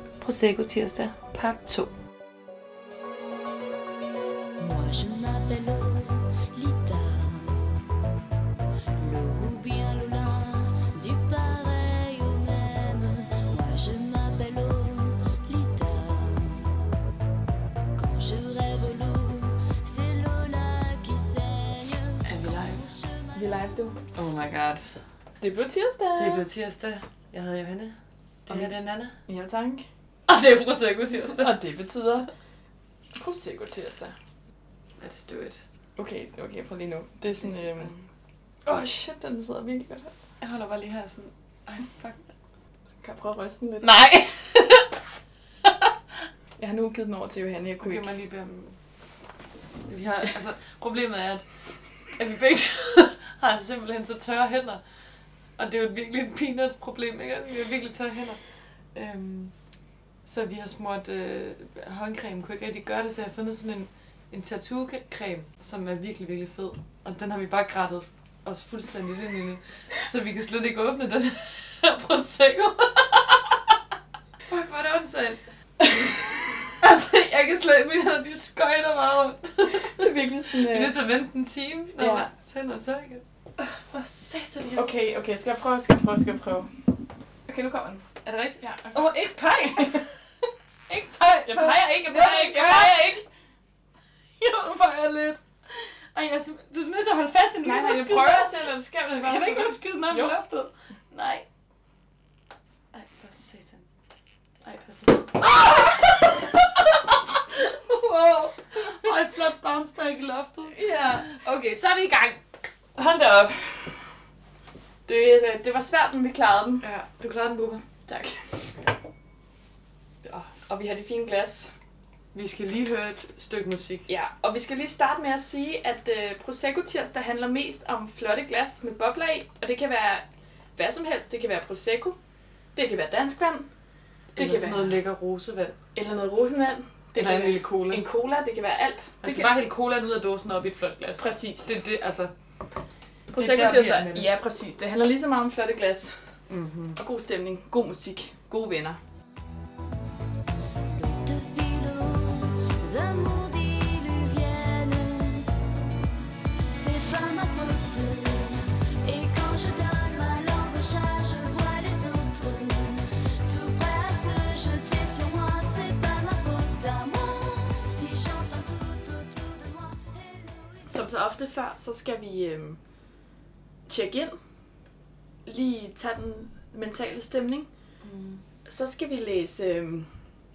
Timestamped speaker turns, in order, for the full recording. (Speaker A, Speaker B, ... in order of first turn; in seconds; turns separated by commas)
Speaker A: 0.2-1.9, Speaker B: 4.6-7.8, Speaker B: 9.0-16.9, Speaker B: 18.0-23.7, Speaker A: 22.2-22.9, Speaker C: 23.4-24.0, Speaker A: 24.1-25.0, Speaker C: 25.4-26.4, Speaker A: 26.2-27.9, Speaker A: 28.5-29.1, Speaker C: 29.3-29.8, Speaker A: 30.3-31.6, Speaker C: 31.1-32.3, Speaker C: 33.2-34.1, Speaker A: 35.0-35.6, Speaker C: 36.0-37.9, Speaker A: 37.4-38.0, Speaker C: 38.7-40.2, Speaker A: 40.4-42.3, Speaker C: 43.0-44.1, Speaker A: 43.8-44.9, Speaker C: 46.6-48.1, Speaker A: 47.8-48.8, Speaker A: 49.8-51.5, Speaker A: 52.1-54.8, Speaker A: 55.6-58.4, Speaker A: 58.9-59.5, Speaker A: 60.2-73.7, Speaker A: 74.5-84.9, Speaker C: 79.7-81.0, Speaker C: 82.0-82.3, Speaker C: 84.8-86.7, Speaker C: 87.5-88.0, Speaker A: 88.2-90.2, Speaker C: 88.6-90.1, Speaker A: 90.9-93.2, Speaker C: 91.5-93.2, Speaker A: 94.4-101.5, Speaker C: 97.6-100.4, Speaker A: 102.9-103.9, Speaker A: 104.7-112.4, Speaker C: 110.8-111.2, Speaker C: 113.0-114.1, Speaker C: 115.1-116.8, Speaker A: 116.8-117.8, Speaker C: 118.1-118.9, Speaker C: 120.2-121.7, Speaker A: 122.3-124.1, Speaker C: 124.1-130.2, Speaker C: 130.8-132.2, Speaker C: 132.8-133.7, Speaker A: 134.3-135.8, Speaker C: 134.4-134.9, Speaker C: 135.9-139.5, Speaker A: 137.2-138.1, Speaker A: 139.2-142.3, Speaker C: 141.2-141.8, Speaker C: 143.3-146.2, Speaker A: 143.3-144.3, Speaker A: 146.5-147.0, Speaker C: 147.0-149.0, Speaker B: 150.9-155.5, Speaker B: 156.7-170.9, Speaker C: 170.9-172.8, Speaker C: 173.9-174.3, Speaker C: 175.5-177.7, Speaker A: 178.0-178.4, Speaker C: 178.7-180.1